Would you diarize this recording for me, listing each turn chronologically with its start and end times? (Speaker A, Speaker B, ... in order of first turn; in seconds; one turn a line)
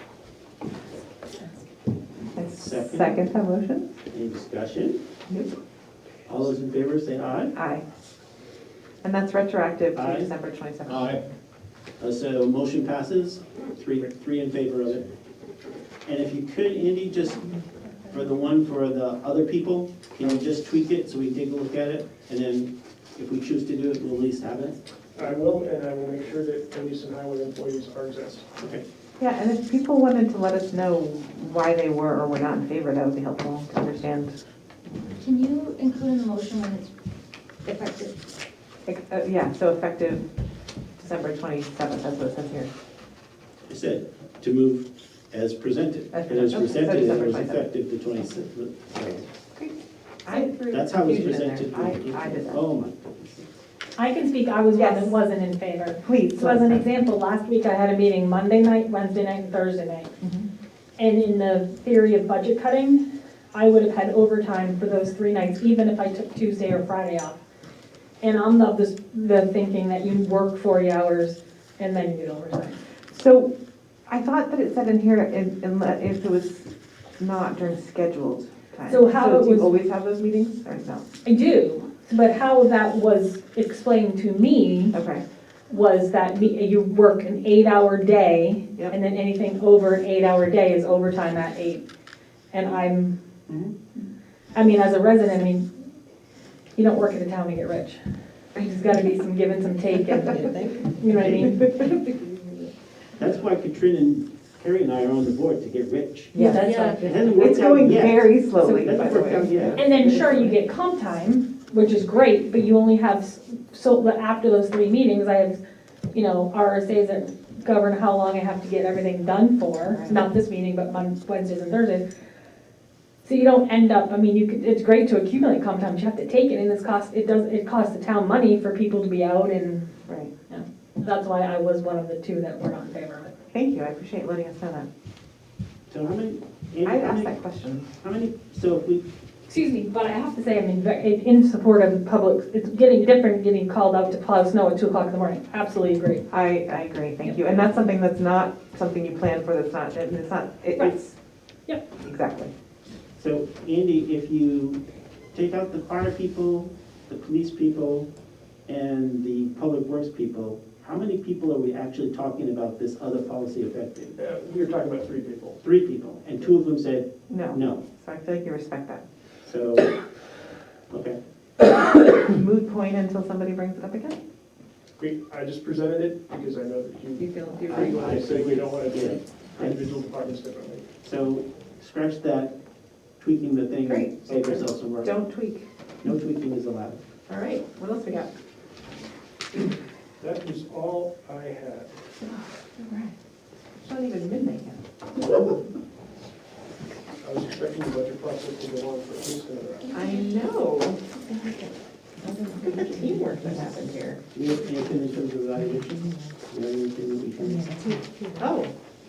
Speaker A: 2.3-3.9
Speaker B: 2.5-3.2
Speaker B: 4.1-5.0
Speaker A: 5.3-5.5
Speaker B: 6.3-7.5
Speaker A: 7.5-7.8
Speaker A: 9.0-11.2
Speaker B: 9.9-10.3
Speaker B: 10.8-11.2
Speaker B: 12.0-15.1
Speaker B: 16.0-17.5
Speaker B: 18.1-24.8
Speaker C: 25.1-28.5
Speaker B: 28.6-28.8
Speaker A: 29.2-34.4
Speaker D: 35.1-36.9
Speaker D: 37.6-38.1
Speaker A: 38.9-40.2
Speaker A: 41.0-42.7
Speaker B: 43.7-49.3
Speaker A: 46.1-47.7
Speaker A: 49.5-52.6
Speaker B: 50.3-53.5
Speaker E: 54.0-60.1
Speaker A: 54.7-55.2
Speaker A: 56.0-56.9
Speaker E: 61.0-63.0
Speaker E: 63.5-67.4
Speaker E: 68.2-72.8
Speaker A: 73.1-73.5
Speaker A: 74.1-81.0
Speaker E: 78.9-79.7
Speaker E: 81.2-84.9
Speaker A: 84.9-85.2
Speaker E: 85.7-91.8
Speaker E: 92.5-93.2
Speaker B: 93.5-93.7
Speaker E: 94.5-95.6
Speaker E: 96.8-98.0
Speaker E: 98.5-101.8
Speaker B: 101.1-101.6
Speaker B: 103.2-109.9
Speaker E: 106.3-107.5
Speaker A: 106.3-110.6
Speaker D: 106.6-107.0
Speaker E: 109.7-115.6
Speaker E: 116.1-122.0
Speaker A: 119.8-120.2
Speaker E: 123.2-129.9
Speaker E: 130.5-133.3
Speaker A: 133.5-134.9
Speaker B: 135.9-137.4
Speaker A: 136.8-137.9
Speaker B: 138.0-139.1
Speaker E: 139.5-146.2
Speaker A: 146.3-151.1
Speaker A: 152.0-152.5
Speaker B: 153.2-154.8
Speaker B: 155.3-158.1
Speaker B: 158.7-164.2
Speaker C: 164.2-165.6
Speaker B: 165.6-167.8
Speaker A: 167.3-169.0
Speaker B: 169.4-170.0
Speaker B: 170.9-171.2
Speaker A: 172.2-174.2
Speaker C: 175.0-180.8
Speaker A: 177.2-178.3
Speaker B: 177.7-179.9
Speaker B: 181.0-182.6
Speaker B: 183.2-185.2
Speaker A: 183.8-184.2
Speaker C: 184.2-184.7
Speaker A: 185.0-185.7
Speaker B: 186.0-187.0
Speaker A: 187.3-188.3
Speaker C: 190.2-191.9
Speaker A: 192.2-193.1
Speaker A: 193.8-194.8
Speaker C: 197.2-200.2
Speaker A: 199.9-204.2
Speaker B: 204.3-207.7
Speaker A: 205.7-206.3
Speaker A: 207.8-208.7